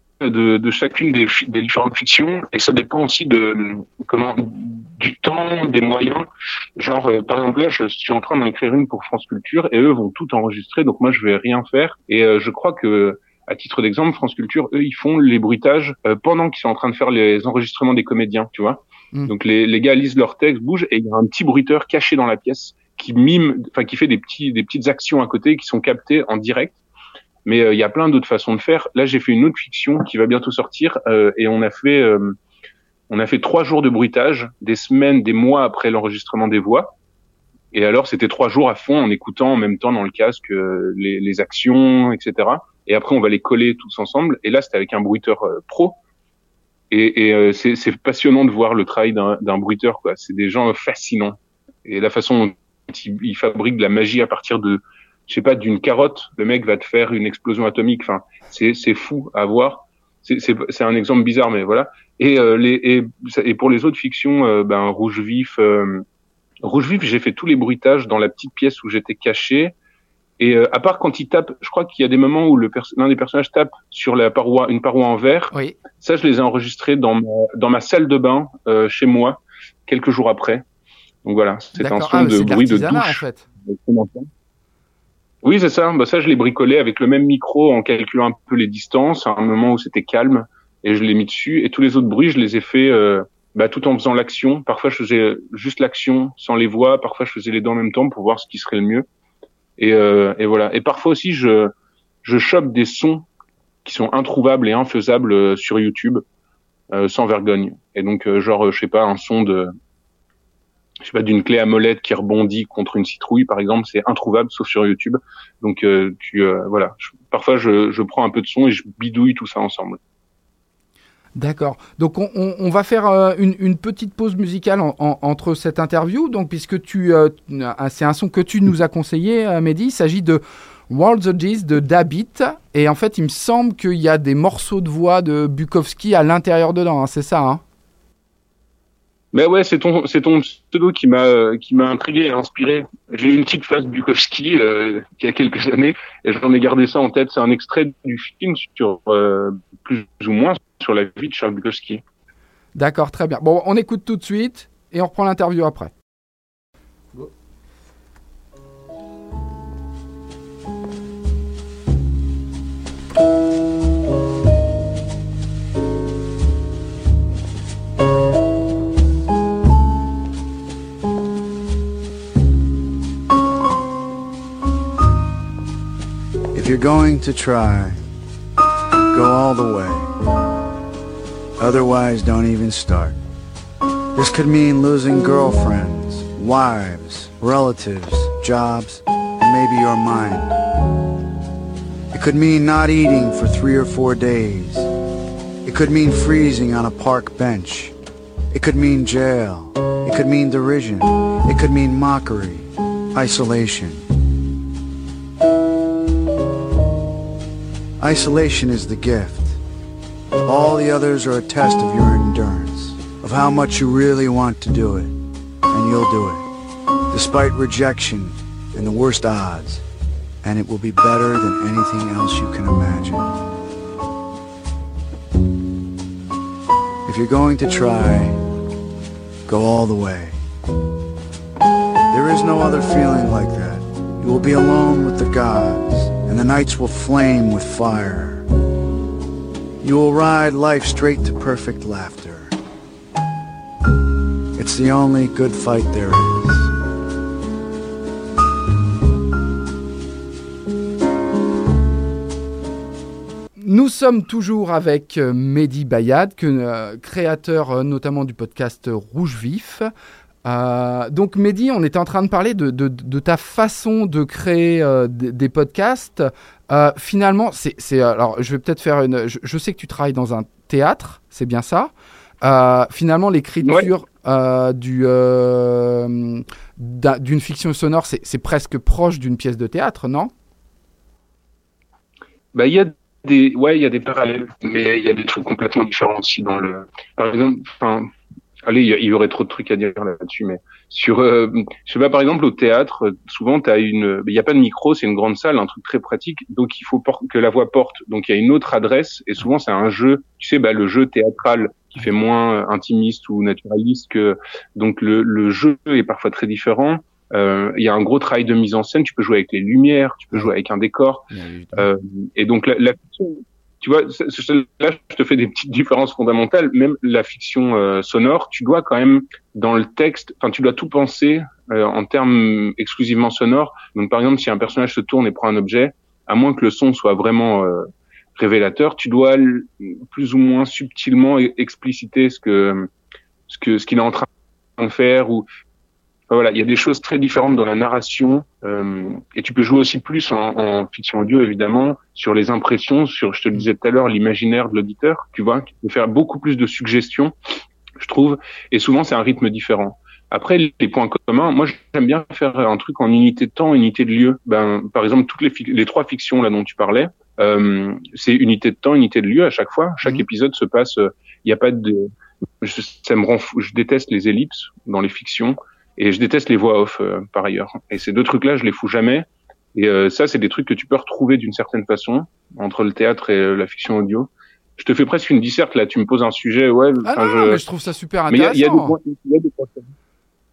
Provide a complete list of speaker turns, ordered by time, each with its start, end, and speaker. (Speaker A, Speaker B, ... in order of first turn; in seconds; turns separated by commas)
Speaker A: 0.2-26.8, Speaker A: 27.4-32.4, Speaker A: 33.1-36.9, Speaker A: 37.7-46.0, Speaker A: 46.9-66.0, Speaker A: 66.6-69.8, Speaker A: 70.4-80.6, Speaker B: 75.5-75.8, Speaker A: 81.2-84.3, Speaker B: 81.8-83.5, Speaker A: 85.4-99.1, Speaker A: 99.8-101.7, Speaker A: 102.2-103.3, Speaker A: 103.8-106.2, Speaker A: 106.9-109.7, Speaker A: 111.0-120.0, Speaker B: 121.4-137.6, Speaker A: 139.3-152.0, Speaker B: 152.8-155.9, Speaker C: 176.5-178.0, Speaker C: 179.1-180.1, Speaker C: 181.6-183.2, Speaker C: 184.2-190.6, Speaker C: 192.1-194.9, Speaker C: 195.6-197.9, Speaker C: 198.5-204.0, Speaker C: 208.0-209.6, Speaker C: 210.4-215.2, Speaker C: 215.7-216.4, Speaker C: 217.1-219.8, Speaker C: 220.4-223.3, Speaker C: 227.1-228.4, Speaker C: 229.5-230.4, Speaker C: 232.1-238.4, Speaker C: 239.8-242.6, Speaker C: 244.6-246.7, Speaker B: 253.6-259.9, Speaker B: 260.4-271.9, Speaker B: 272.4-280.3, Speaker A: 273.6-273.9, Speaker A: 282.5-288.1, Speaker A: 288.6-311.2, Speaker B: 311.3-311.9, Speaker A: 311.8-332.9, Speaker A: 333.5-335.5, Speaker A: 336.3-347.4, Speaker A: 348.0-362.1, Speaker A: 362.6-377.6, Speaker B: 377.0-379.0, Speaker A: 378.3-379.9